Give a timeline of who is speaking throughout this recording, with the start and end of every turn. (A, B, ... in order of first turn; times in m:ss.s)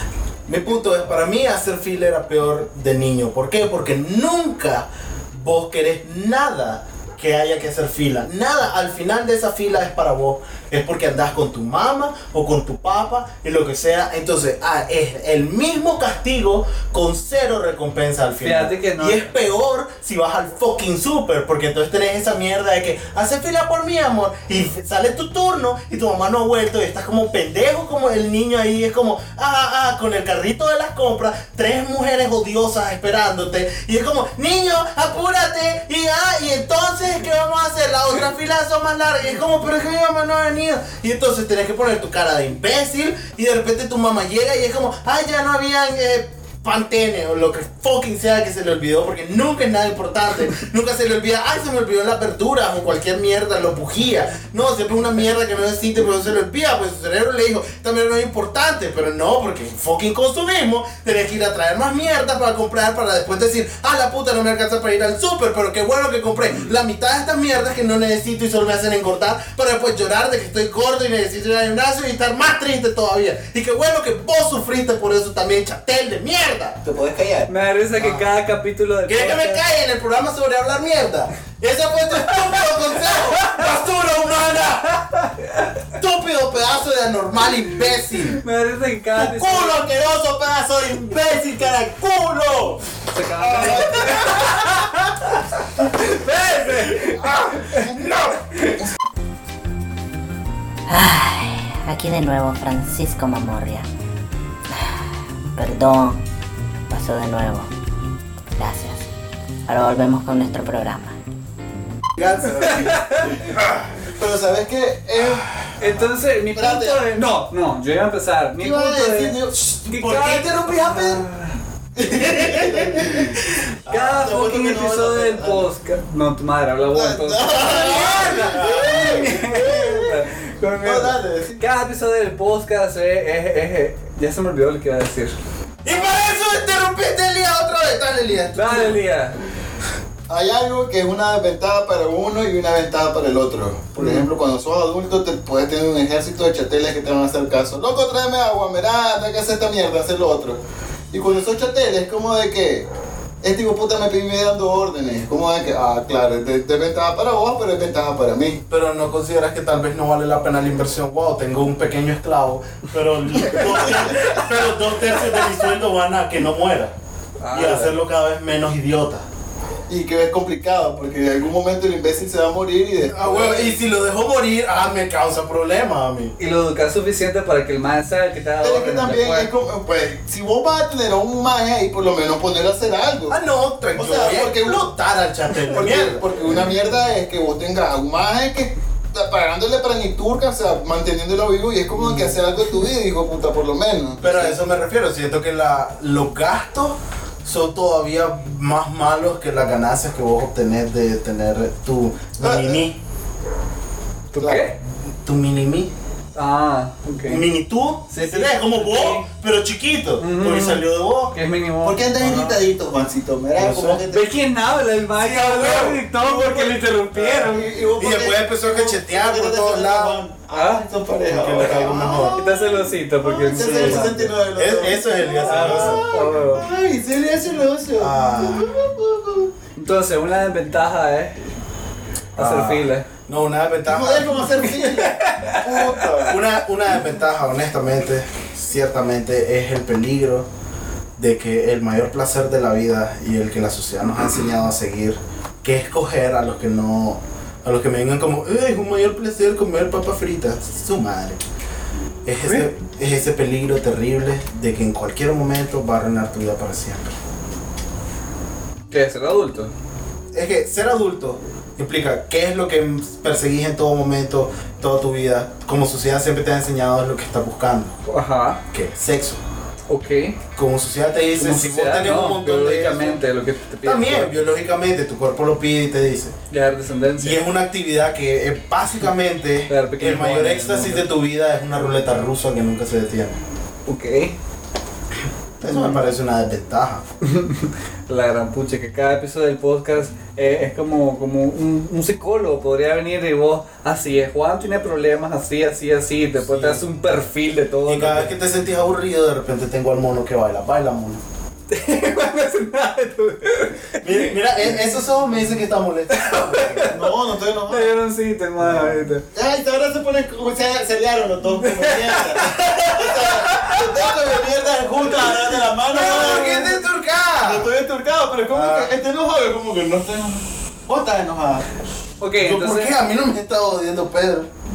0:00.5-1:16.8 A
0:18.4-0:19.3 B
1:16.8-1:17.5 C
1:17.5-1:19.6 B
1:18.0-1:18.3 A
1:19.1-1:25.1 A
1:23.3-1:23.7 B
1:25.1-1:25.8 B
1:26.0-1:28.4 A
1:28.4-1:29.8 B
1:29.2-1:32.8 C
1:33.1-1:37.9 B
1:33.4-1:34.6 C
1:37.1-1:38.4 A
1:37.7-1:38.1 C
1:38.6-1:38.8 B
1:40.9-1:43.9 D
1:44.7-1:46.2 D
1:46.9-1:47.7 D
1:48.6-1:49.1 D
1:49.7-1:51.2 D
1:52.2-1:53.4 C
1:52.6-1:53.4 B
1:53.5-1:53.9 A
1:54.2-1:55.5 C
1:55.2-1:56.1 A
1:55.8-2:01.5 B
1:56.5-1:57.0 C
1:58.6-2:00.5 C
2:00.2-2:01.2 A
2:02.0-2:05.7 C
2:02.7-2:02.9 A
2:03.9-2:15.4 B
2:06.9-2:10.2 C
2:08.2-2:09.3 A
2:10.8-2:11.6 C
2:15.8-2:19.0 A
2:18.5-2:19.4 B
2:20.3-2:30.6 C
2:24.0-2:24.3 B
2:31.1-2:32.9 C
2:33.4-2:38.6 C
2:38.7-2:46.9 A
2:44.2-2:44.5 B
2:47.4-2:48.0 B
2:47.5-2:49.2 A
2:49.9-2:53.7 C
2:53.1-2:56.3 A
2:56.4-2:59.5 B
2:58.6-3:03.4 C
3:03.3-3:06.2 A
3:04.0-3:04.9 C
3:05.7-3:14.6 C
3:12.0-3:12.3 A
3:14.2-3:23.0 A
3:22.4-3:22.8 C
3:24.3-3:24.8 B
3:25.2-3:25.9 A
3:26.4-3:27.5 B
3:27.2-3:31.4 A
3:28.1-3:29.3 B
3:30.2-3:32.5 B
3:31.8-3:34.3 C
3:32.2-3:32.5 A
3:33.6-3:34.0 A
3:34.1-3:37.7 B
3:35.2-3:49.5 C
3:38.0-3:40.2 A
3:40.5-3:40.8 B
3:41.3-3:42.4 A
3:42.4-3:44.3 B
3:43.6-3:46.0 A
3:45.5-3:46.7 B
3:48.0-3:48.7 A
3:49.8-3:51.4 B
3:52.4-3:54.4 A
3:52.4-3:53.1 B
3:53.9-3:56.4 C
3:54.8-3:56.1 B
3:56.3-4:00.5 A
4:01.2-4:11.4 A
4:12.2-4:17.2 A
4:18.9-4:19.7 B
4:20.3-4:28.0 A
4:28.1-4:28.6 B
4:28.7-4:29.4 A
4:29.9-4:30.4 B
4:30.6-4:33.2 A
4:31.4-4:34.3 B
4:33.8-4:36.4 A
4:36.5-4:37.4 B
4:37.2-4:43.4 A
4:39.7-4:41.1 B
4:43.9-4:44.4 B
4:45.6-4:47.0 A
4:45.6-4:46.0 B
4:47.2-4:58.3 B
4:56.4-4:56.9 A
4:57.9-5:01.2 A
5:01.7-5:04.3 B
5:04.0-5:07.0 A
5:06.1-5:07.0 B
5:06.9-5:07.9 C
5:07.7-5:09.2 B
5:08.6-5:09.1 A
5:09.3-5:16.8 C
5:11.6-5:14.1 B
5:15.9-5:17.7 A
5:16.0-5:16.7 B
5:17.4-5:21.7 C
5:18.5-5:18.9 A
5:22.2-5:23.0 B
5:22.4-5:24.5 A